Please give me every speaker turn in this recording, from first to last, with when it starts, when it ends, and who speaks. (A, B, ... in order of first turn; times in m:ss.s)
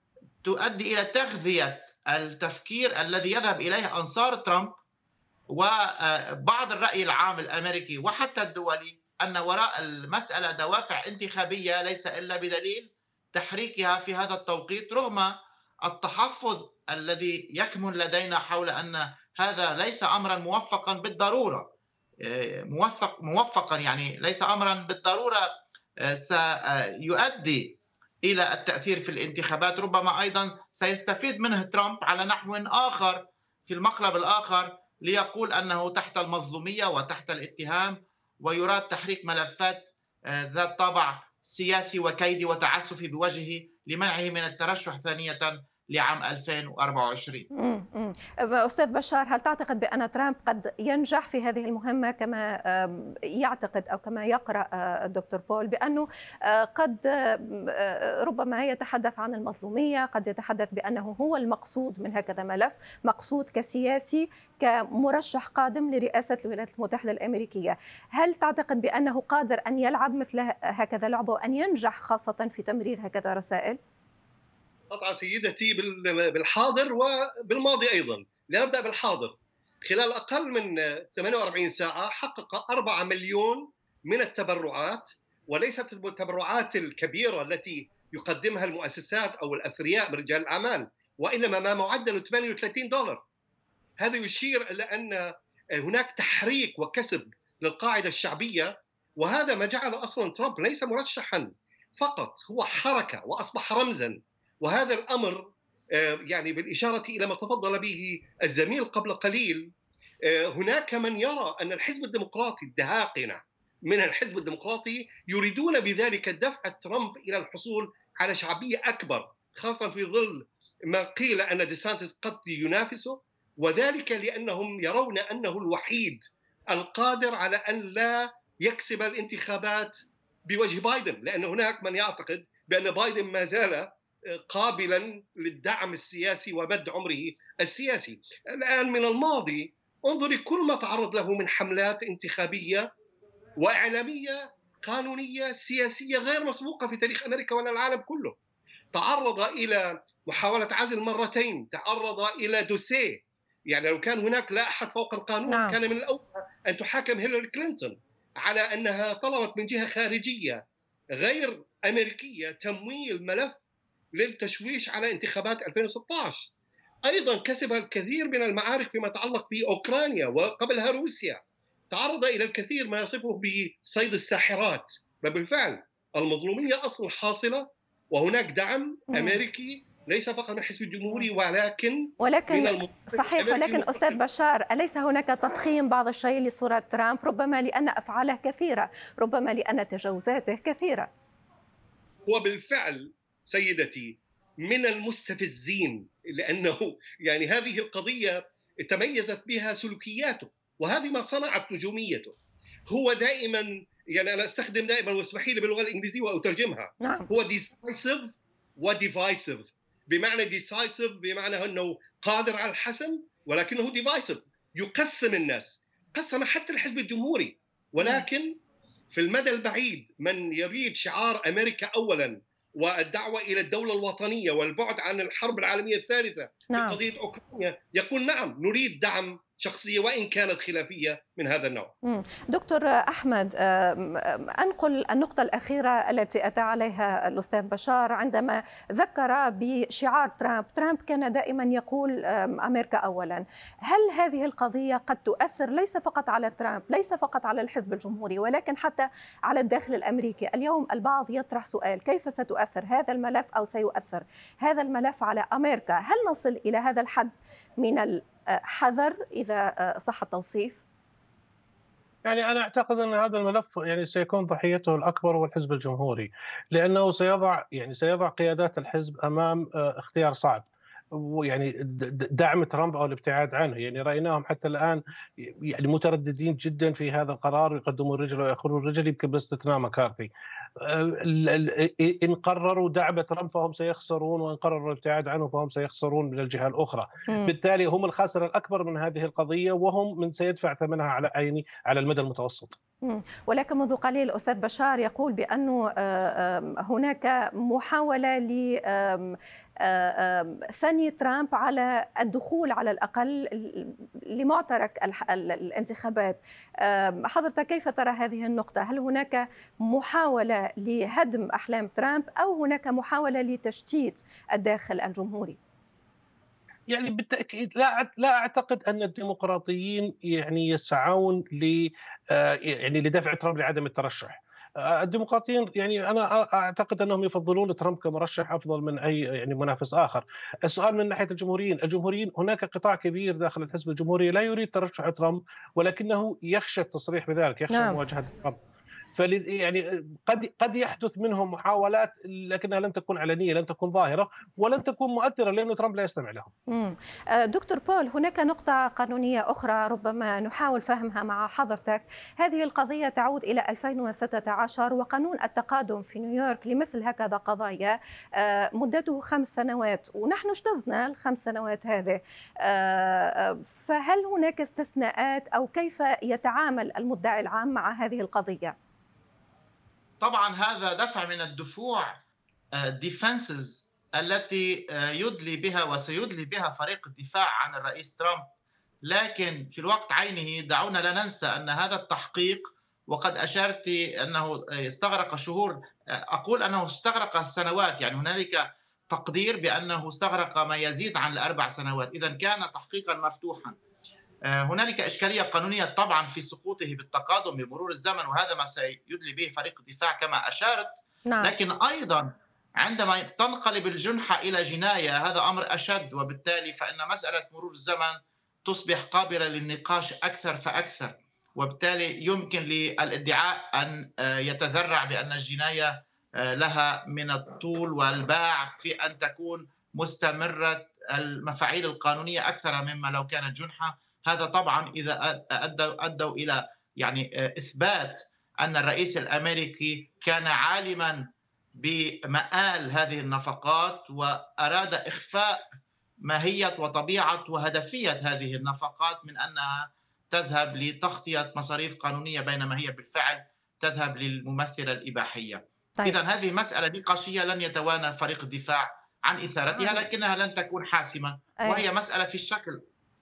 0:00.4-0:04.8 A
0:05.5-0:21.7 A
0:22.2-0:25.5 A
0:26.0-0:47.5 A
0:47.6-1:13.8 B
1:14.9-1:33.2 C
1:34.0-1:49.7 C
1:50.3-2:09.9 C
2:10.4-2:13.9 C
2:14.5-2:22.9 C
2:23.6-2:28.4 C
2:28.9-2:40.6 C
2:35.5-2:35.8 B
2:41.2-2:43.6 C
2:44.2-2:46.5 C
2:47.1-2:51.4 C
2:51.9-3:04.2 C
2:59.1-2:59.4 B
3:02.2-3:11.1 B
3:12.3-3:22.4 C
3:22.9-3:38.6 C
3:27.0-3:27.3 B
3:38.0-3:38.2 B
3:39.1-3:51.9 C
3:46.7-3:47.0 B
3:52.0-4:20.8 B
4:22.2-4:52.8 D
4:47.3-4:47.5 B
4:53.0-5:15.6 B
5:16.9-5:38.6 D
5:37.7-5:38.0 B
5:39.2-5:46.5 D
5:46.7-6:08.8 B
6:10.2-6:12.2 A
6:12.8-6:18.4 A
6:19.0-6:25.8 A
6:26.3-6:33.8 A
6:34.5-7:15.6 A
6:41.2-6:41.5 B
7:16.2-7:32.8 A
7:29.8-7:30.1 B